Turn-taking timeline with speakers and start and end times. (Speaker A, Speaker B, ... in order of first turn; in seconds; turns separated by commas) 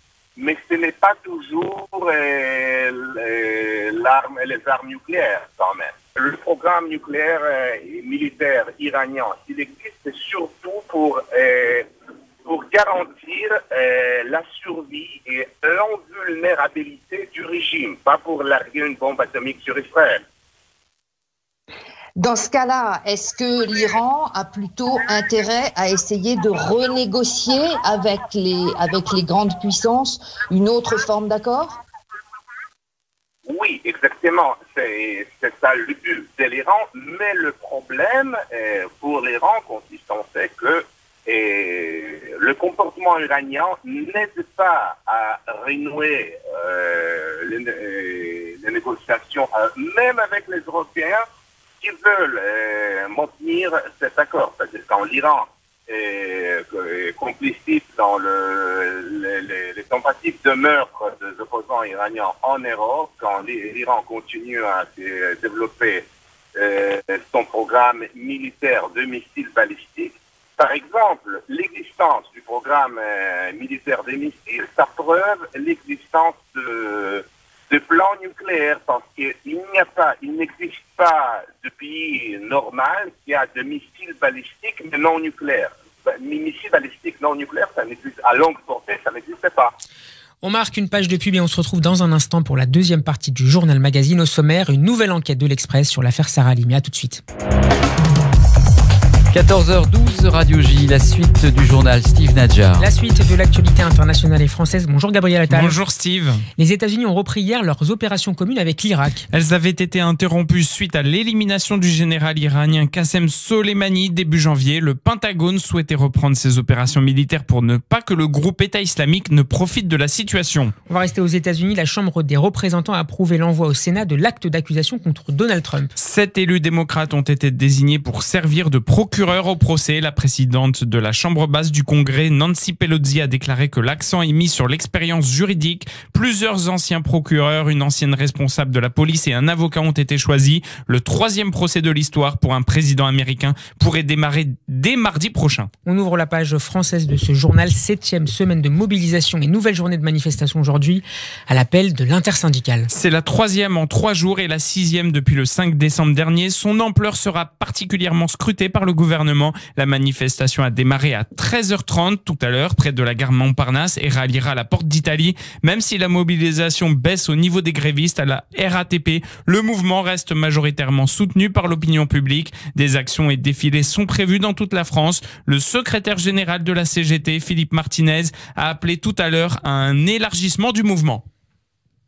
Speaker A: 0.4-11.9, Speaker A: 12.4-20.2, Speaker B: 22.2-31.8, Speaker A: 33.5-51.2, Speaker A: 51.8-89.7, Speaker C: 90.4-97.2, Speaker D: 99.3-102.9, Speaker C: 102.8-105.8, Speaker E: 105.5-106.5, Speaker C: 106.6-109.2, Speaker E: 109.3-120.7, Speaker C: 120.9-125.9, Speaker E: 126.0-145.7, Speaker C: 145.8-152.9, Speaker E: 152.9-181.2